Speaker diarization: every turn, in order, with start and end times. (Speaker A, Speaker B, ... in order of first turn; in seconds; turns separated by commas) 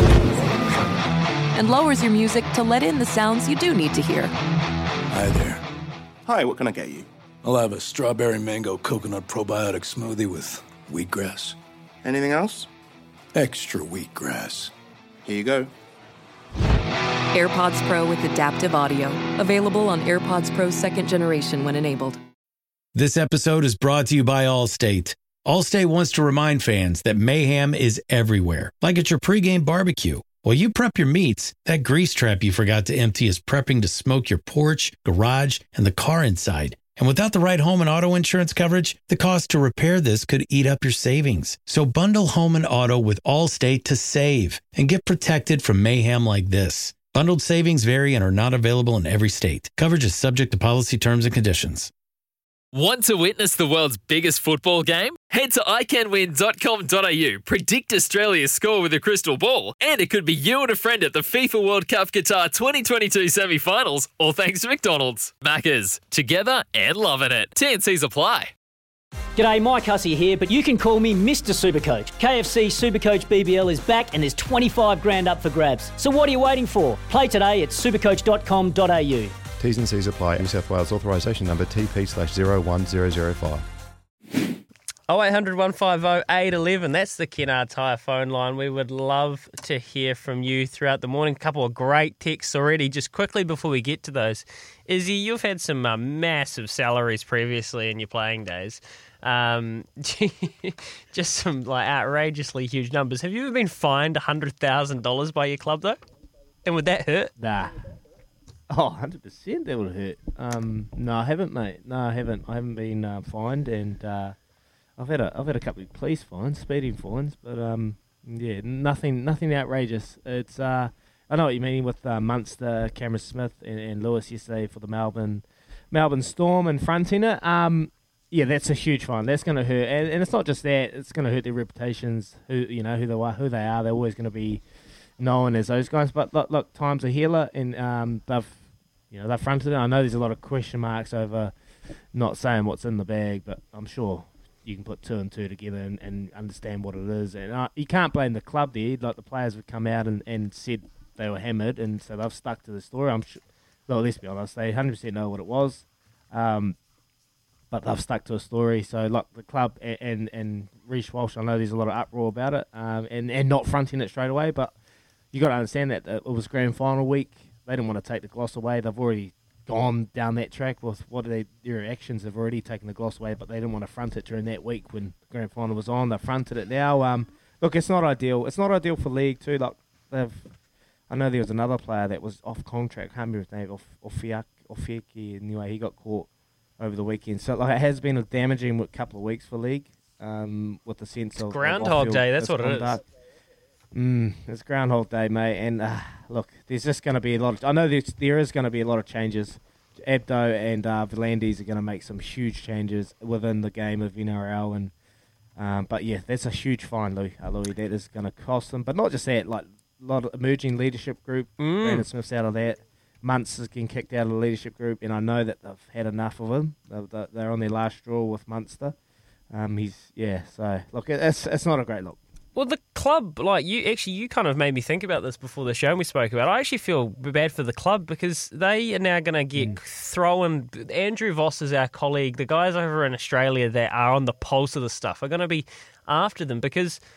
Speaker A: 1.5-4.3, Speaker B: 5.1-5.6, Speaker C: 6.2-7.1, Speaker B: 7.4-11.6, Speaker C: 12.0-12.7, Speaker B: 13.3-14.7, Speaker C: 15.2-15.7, Speaker A: 17.3-22.2, Speaker D: 22.9-51.9, Speaker E: 52.7-68.5, Speaker F: 69.3-79.4, Speaker G: 79.6-83.6, Speaker H: 85.1-106.0, Speaker H: 106.6-107.3, Speaker I: 107.4-107.8, Speaker I: 108.7-114.3, Speaker I: 115.0-134.6, Speaker I: 135.2-138.5, Speaker I: 139.1-141.5, Speaker I: 142.1-156.8, Speaker I: 157.7-164.7, Speaker I: 165.3-180.5, Speaker I: 181.1-186.3, Speaker I: 186.8-193.0, Speaker H: 191.4-193.0, Speaker I: 193.9-204.9, Speaker I: 205.6-218.9, Speaker H: 211.6-212.1, Speaker I: 219.5-222.2, Speaker H: 222.5-237.0